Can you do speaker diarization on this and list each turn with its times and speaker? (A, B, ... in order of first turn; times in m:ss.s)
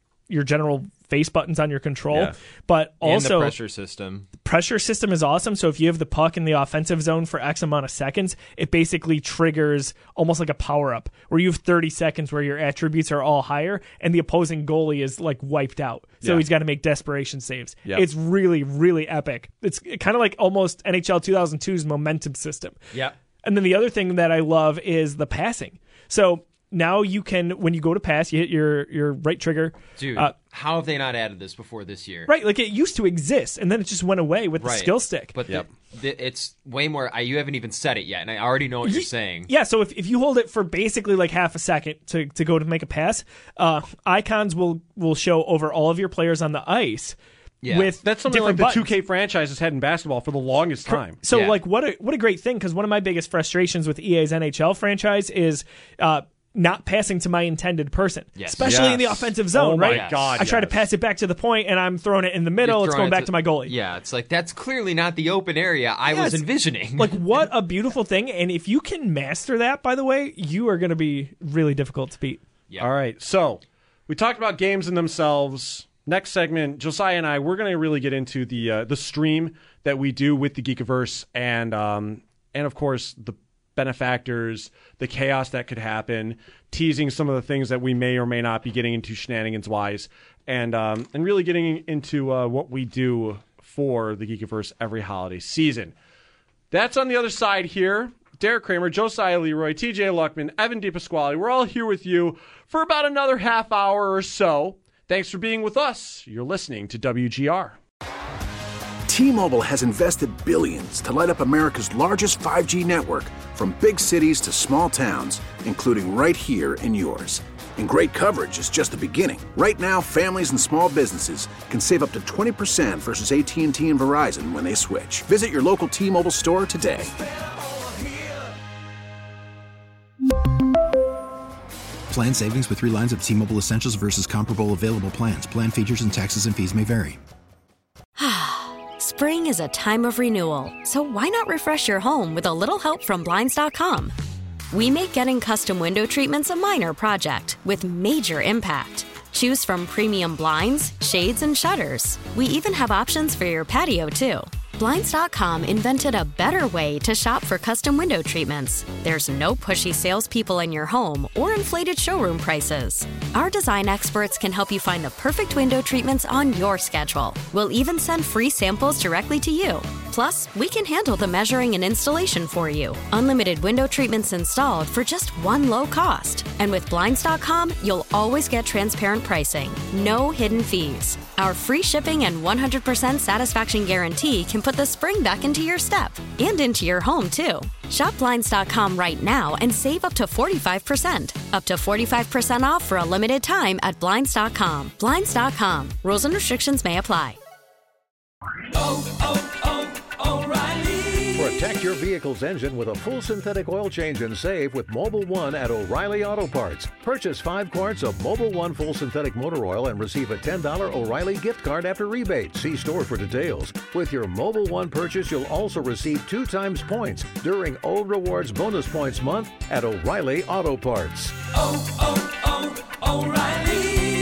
0:00.3-0:03.5 A
0:03.0-0:04.3 B
0:04.4-0:22.8 A
0:23.4-0:30.3 A
0:30.0-0:32.3 B
0:32.3-0:35.3 A
0:34.6-0:39.5 B
0:38.8-0:47.2 A
0:47.6-0:47.9 B
0:47.7-0:48.9 A
0:48.0-0:51.2 C
0:50.9-1:03.7 A
0:51.3-0:51.6 B
0:58.4-0:58.9 B
0:58.6-1:00.8 C
0:59.9-1:00.4 B
1:02.6-1:07.5 B
1:06.1-1:06.4 A
1:07.0-1:12.4 A
1:12.8-1:36.0 C
1:36.7-1:47.8 C
1:49.1-2:07.1 D
2:12.1-2:17.2 E
2:18.2-2:24.1 F
2:24.7-3:17.4 F
3:21.3-3:41.4 G